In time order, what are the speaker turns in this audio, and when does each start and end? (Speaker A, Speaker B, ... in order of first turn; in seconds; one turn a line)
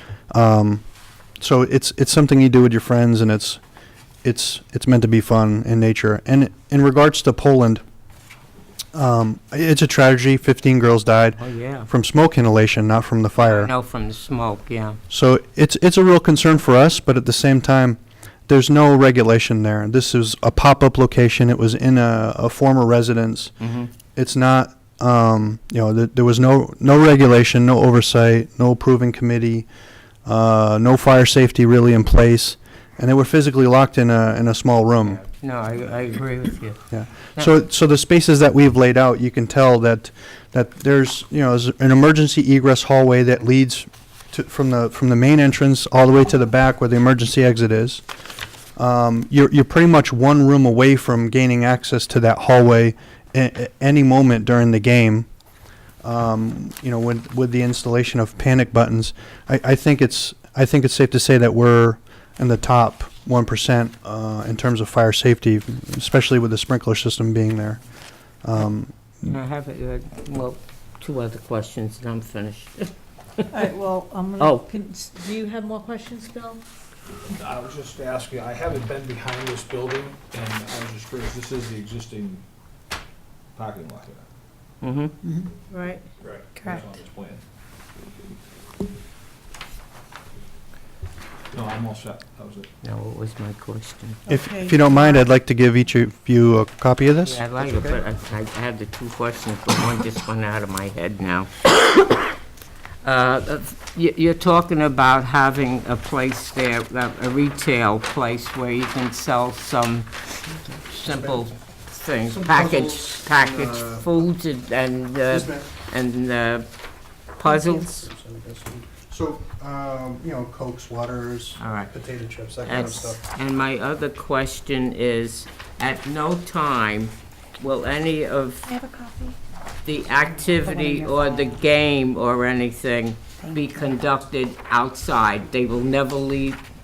Speaker A: 0.3-0.8
Speaker A: 1.4-3.6
Speaker A: 4.2-7.8
Speaker A: 8.9-13.7
Speaker B: 11.4-11.9
Speaker B: 13.4-15.0
Speaker A: 15.1-23.5
Speaker B: 23.6-23.9
Speaker A: 24.2-29.7
Speaker A: 30.3-35.2
Speaker B: 35.0-36.8
Speaker A: 36.9-48.0
Speaker A: 48.8-55.3
Speaker A: 56.0-67.8
Speaker A: 68.4-69.3
Speaker B: 69.2-73.5
Speaker C: 73.5-76.6
Speaker B: 74.4-74.7
Speaker D: 77.2-82.4
Speaker D: 83.5-84.3
Speaker B: 84.8-85.1
Speaker C: 85.4-86.0
Speaker D: 86.2-87.4
Speaker D: 91.5-92.7
Speaker B: 92.8-94.2
Speaker C: 94.3-95.2
Speaker A: 94.3-98.0
Speaker B: 97.2-101.8
Speaker B: 103.0-110.1
Speaker B: 110.9-116.7
Speaker A: 110.9-111.4
Speaker A: 112.3-114.1
Speaker A: 115.3-115.7
Speaker B: 117.4-118.1
Speaker A: 117.8-123.2
Speaker B: 121.6-121.9
Speaker B: 122.6-128.7
Speaker B: 129.8-136.6